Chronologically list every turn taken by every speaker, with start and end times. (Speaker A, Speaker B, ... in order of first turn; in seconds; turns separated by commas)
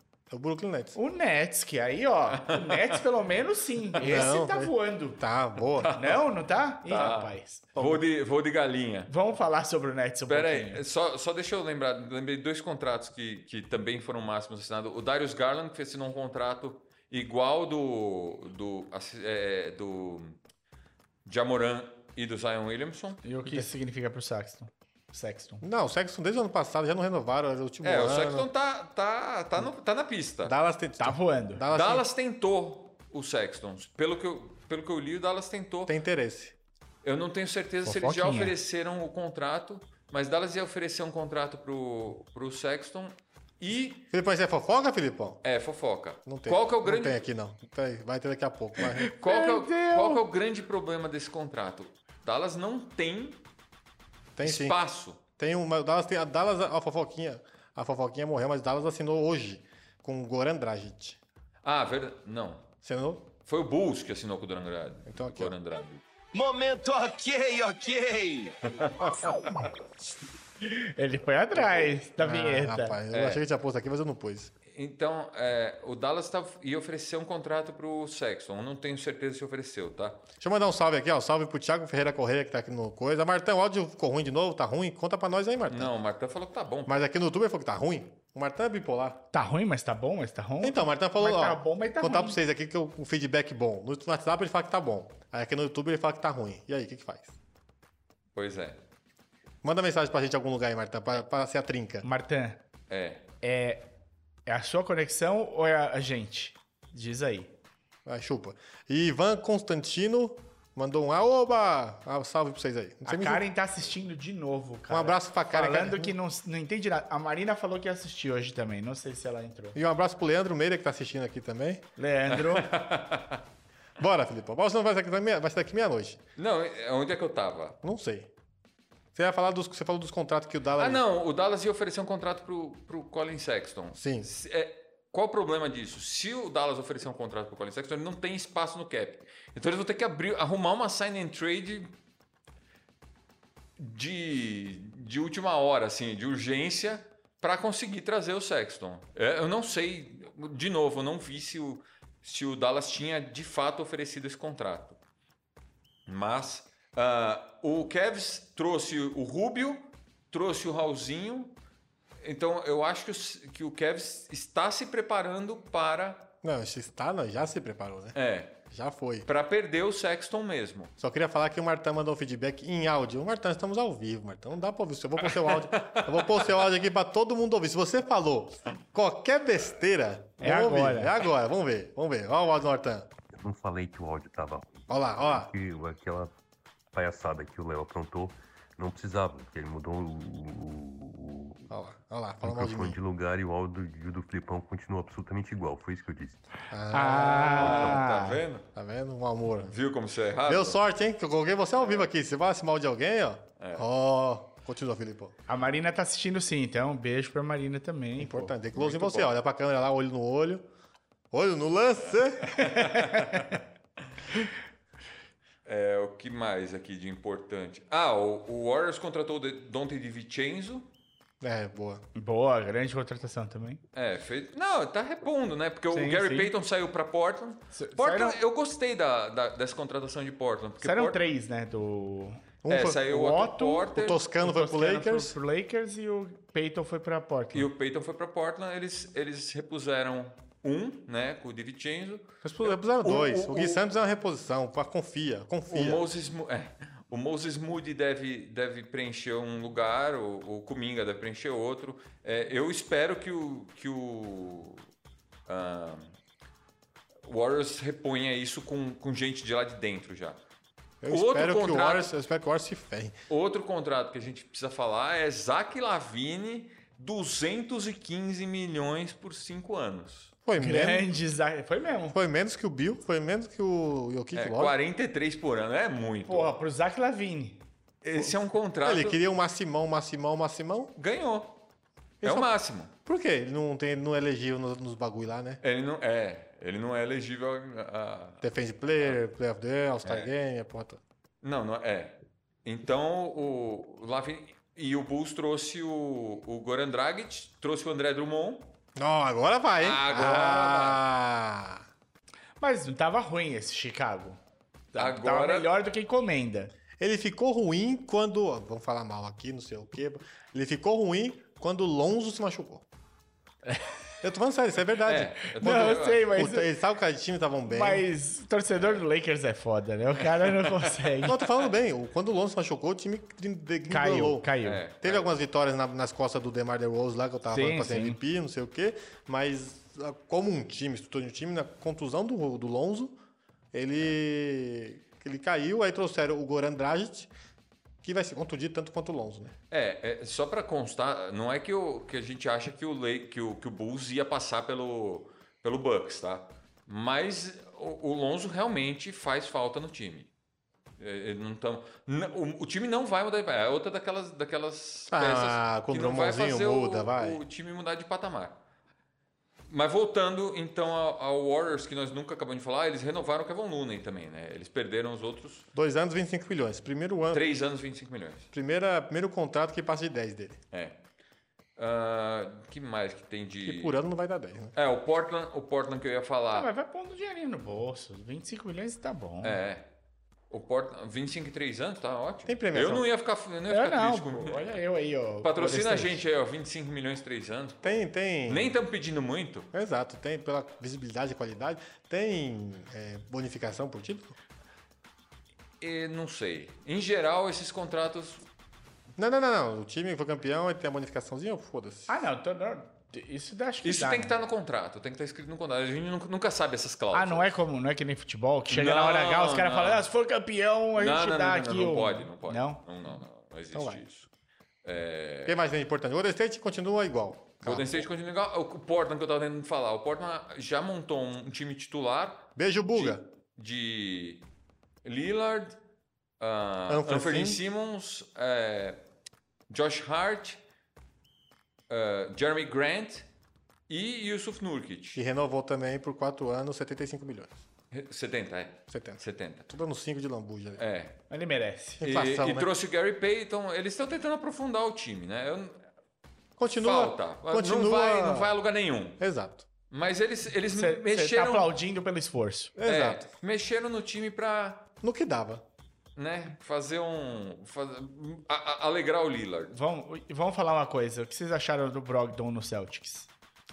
Speaker A: 0.3-1.0, Speaker B: 1.0-5.2, Speaker C: 2.3-3.0, Speaker C: 4.0-4.3, Speaker A: 4.0-6.0, Speaker C: 5.8-6.2, Speaker B: 6.0-7.7, Speaker C: 6.9-9.1, Speaker A: 7.8-8.0, Speaker B: 9.1-10.8, Speaker C: 10.3-20.4, Speaker C: 21.2-23.2, Speaker B: 23.2-25.6, Speaker A: 25.6-28.5, Speaker C: 27.8-30.6, Speaker A: 30.4-32.1, Speaker B: 31.0-31.6, Speaker C: 31.7-36.0, Speaker A: 35.9-36.6, Speaker C: 37.0-44.1, Speaker B: 37.9-38.5, Speaker A: 44.1-45.4, Speaker C: 45.4-47.2, Speaker A: 46.3-49.1, Speaker B: 49.0-50.2, Speaker C: 49.1-53.5, Speaker A: 54.4-54.8, Speaker C: 54.4-55.2, Speaker A: 55.4-61.2, Speaker C: 61.6-62.7, Speaker A: 62.8-63.3, Speaker C: 63.4-66.0, Speaker A: 65.1-65.6, Speaker D: 66.3-69.4, Speaker A: 69.0-69.4, Speaker B: 70.6-73.0, Speaker A: 71.8-74.5, Speaker C: 73.1-73.4, Speaker C: 74.7-80.2, Speaker A: 80.4-85.9, Speaker C: 85.7-87.0, Speaker A: 86.9-89.2, Speaker B: 89.3-92.4, Speaker A: 90.6-97.3, Speaker C: 98.3-98.8, Speaker A: 99.6-102.1, Speaker B: 102.0-102.6, Speaker C: 102.9-103.3, Speaker B: 103.4-103.9, Speaker B: 104.5-107.5, Speaker A: 108.1-113.4, Speaker B: 113.0-119.8, Speaker A: 114.9-116.2, Speaker A: 119.8-121.9, Speaker B: 122.0-122.8, Speaker C: 122.3-123.4, Speaker A: 124.0-126.2, Speaker C: 126.4-127.8, Speaker A: 127.8-128.3, Speaker A: 129.1-131.0, Speaker C: 130.8-141.9, Speaker A: 134.0-134.3, Speaker C: 143.8-155.0, Speaker C: 156.1-161.6, Speaker C: 162.2-166.3, Speaker A: 166.4-169.3, Speaker C: 168.2-168.6, Speaker C: 169.3-170.9, Speaker A: 171.0-183.1, Speaker C: 175.2-176.5, Speaker B: 180.4-181.1, Speaker E: 183.3-186.3, Speaker A: 184.9-185.5, Speaker E: 186.9-191.7, Speaker A: 191.7-193.0, Speaker E: 192.4-196.5, Speaker A: 196.7-198.0, Speaker B: 196.9-198.4, Speaker C: 197.5-198.7, Speaker A: 198.7-199.8, Speaker C: 199.7-200.8, Speaker A: 200.4-205.3, Speaker C: 201.8-202.1, Speaker C: 203.6-203.9, Speaker B: 205.5-208.5, Speaker A: 208.2-210.7, Speaker C: 208.7-209.4, Speaker A: 211.3-212.7, Speaker C: 212.4-213.6, Speaker B: 212.9-213.6, Speaker C: 215.7-220.9, Speaker A: 221.4-222.0, Speaker B: 222.2-223.8, Speaker C: 223.9-231.2, Speaker B: 225.9-226.5, Speaker B: 227.7-228.4, Speaker B: 230.8-232.4, Speaker A: 232.6-233.0, Speaker C: 232.7-234.2, Speaker B: 233.1-237.7, Speaker A: 233.9-235.4, Speaker C: 237.5-243.9, Speaker A: 242.4-246.0, Speaker C: 245.7-254.9, Speaker C: 255.5-256.2, Speaker C: 257.2-260.4, Speaker A: 261.0-263.2, Speaker C: 261.1-262.1, Speaker C: 263.3-270.3, Speaker A: 270.4-271.1, Speaker B: 270.6-272.2, Speaker A: 272.1-274.7, Speaker C: 274.3-276.5, Speaker B: 276.3-277.6, Speaker C: 278.0-279.2, Speaker A: 278.2-280.9, Speaker C: 281.0-281.6, Speaker A: 282.2-282.5, Speaker C: 282.2-282.9, Speaker A: 283.1-285.6, Speaker C: 285.6-288.4, Speaker A: 288.4-291.0, Speaker C: 290.0-290.3, Speaker C: 291.4-298.8, Speaker A: 299.0-301.9, Speaker C: 299.8-301.0, Speaker B: 302.6-304.4, Speaker B: 304.9-306.7, Speaker C: 305.0-305.7, Speaker A: 307.0-312.9, Speaker A: 314.2-318.1, Speaker C: 315.0-316.3, Speaker B: 315.6-316.7, Speaker B: 317.7-321.4, Speaker C: 318.8-319.1, Speaker C: 320.4-321.3, Speaker A: 321.2-333.2, Speaker B: 323.9-324.8, Speaker C: 324.6-325.3, Speaker B: 327.5-328.2, Speaker A: 333.7-337.3, Speaker A: 338.0-339.5, Speaker C: 339.7-350.3, Speaker C: 351.0-358.6, Speaker A: 355.1-357.4, Speaker C: 359.7-365.7, Speaker A: 365.8-367.4, Speaker C: 367.3-368.5, Speaker A: 368.5-370.6, Speaker C: 370.7-371.0, Speaker C: 371.8-374.0, Speaker A: 373.6-374.7, Speaker C: 374.8-376.7, Speaker B: 376.5-379.6, Speaker C: 379.4-379.9, Speaker C: 380.5-384.8, Speaker A: 382.5-383.1, Speaker B: 383.7-386.2, Speaker C: 385.4-389.7, Speaker A: 387.8-388.8, Speaker A: 389.7-394.4, Speaker C: 395.8-398.5, Speaker A: 399.2-402.2, Speaker B: 402.1-404.4, Speaker C: 403.8-407.6, Speaker B: 407.1-412.8, Speaker C: 408.7-410.1, Speaker C: 410.9-414.3, Speaker A: 413.7-414.0, Speaker C: 414.8-415.6, Speaker A: 415.5-418.1, Speaker C: 417.6-424.5, Speaker A: 422.6-423.2, Speaker C: 425.1-425.8, Speaker C: 426.4-429.0, Speaker A: 426.9-427.6, Speaker C: 429.7-430.6, Speaker C: 431.9-433.3, Speaker C: 433.9-435.2, Speaker A: 435.1-437.6, Speaker C: 437.9-439.7, Speaker A: 438.9-440.8, Speaker C: 440.8-441.2, Speaker B: 441.3-442.0, Speaker A: 442.0-442.7, Speaker C: 442.0-445.8, Speaker A: 446.6-448.5, Speaker C: 446.8-449.2, Speaker A: 449.2-449.7, Speaker C: 449.9-451.7, Speaker B: 450.7-452.7, Speaker A: 452.8-453.3, Speaker C: 452.8-454.9, Speaker A: 455.0-455.6, Speaker C: 456.2-459.8, Speaker B: 459.7-463.3